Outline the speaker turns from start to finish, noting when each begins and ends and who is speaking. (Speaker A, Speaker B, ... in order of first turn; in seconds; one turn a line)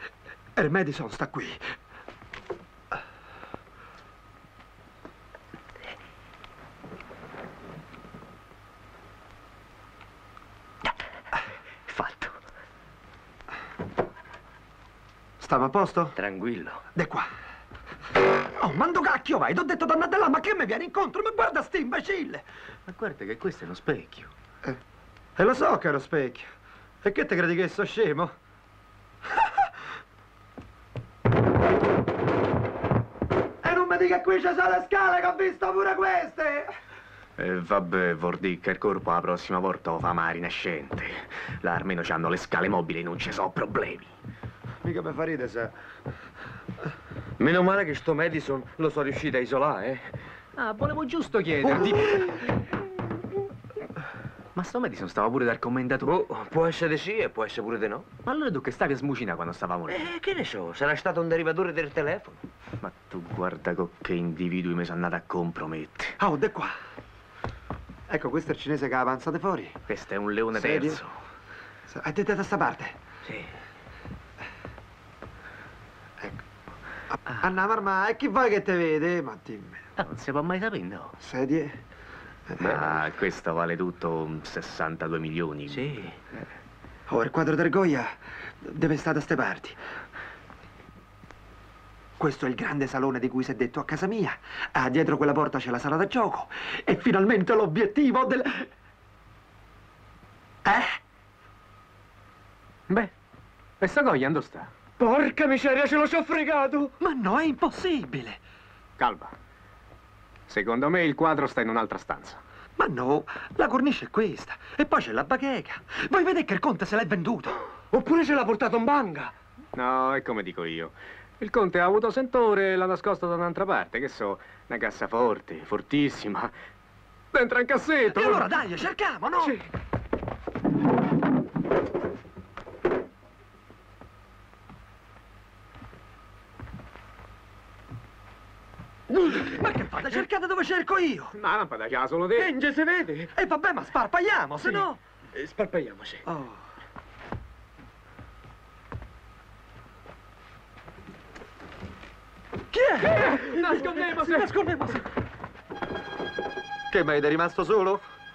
Speaker A: 0.6-1.6
Speaker A: 15.4-16.1
Speaker A: 16.9-17.3
Speaker A: 18.6-22.4
Speaker B: 23.0-24.3
Speaker A: 25.4-26.5
Speaker A: 27.0-28.3
Speaker A: 29.3-29.7
Speaker A: 33.6-36.7
Speaker B: 37.4-44.1
Speaker A: 44.8-45.7
Speaker C: 47.4-50.1
Speaker B: 50.6-52.4
Speaker B: 54.6-56.1
Speaker C: 56.0-58.1
Speaker B: 58.3-60.1
Speaker C: 59.9-62.4
Speaker B: 62.8-66.1
Speaker A: 66.2-66.7
Speaker A: 68.1-69.8
Speaker B: 69.9-71.1
Speaker A: 70.6-71.0
Speaker A: 71.9-73.0
Speaker A: 77.1-79.8
Speaker B: 80.0-81.1
Speaker A: 81.2-81.8
Speaker A: 82.5-83.0
Speaker B: 82.6-86.1
Speaker A: 87.1-89.8
Speaker A: 92.2-98.7
Speaker A: 100.6-101.0
Speaker B: 103.8-104.7
Speaker C: 105.0-106.9
Speaker A: 107.0-108.4
Speaker B: 109.0-109.3
Speaker B: 110.5-112.4
Speaker A: 112.8-117.6
Speaker C: 117.9-119.3
Speaker B: 119.8-126.5
Speaker B: 127.3-128.5
Speaker A: 128.1-129.6
Speaker A: 139.2-141.3
Speaker B: 141.4-142.5
Speaker C: 142.4-143.3
Speaker A: 143.4-145.0
Speaker C: 145.4-146.1
Speaker A: 146.3-146.6
Speaker A: 152.7-155.0
Speaker B: 153.1-154.5
Speaker A: 156.9-158.0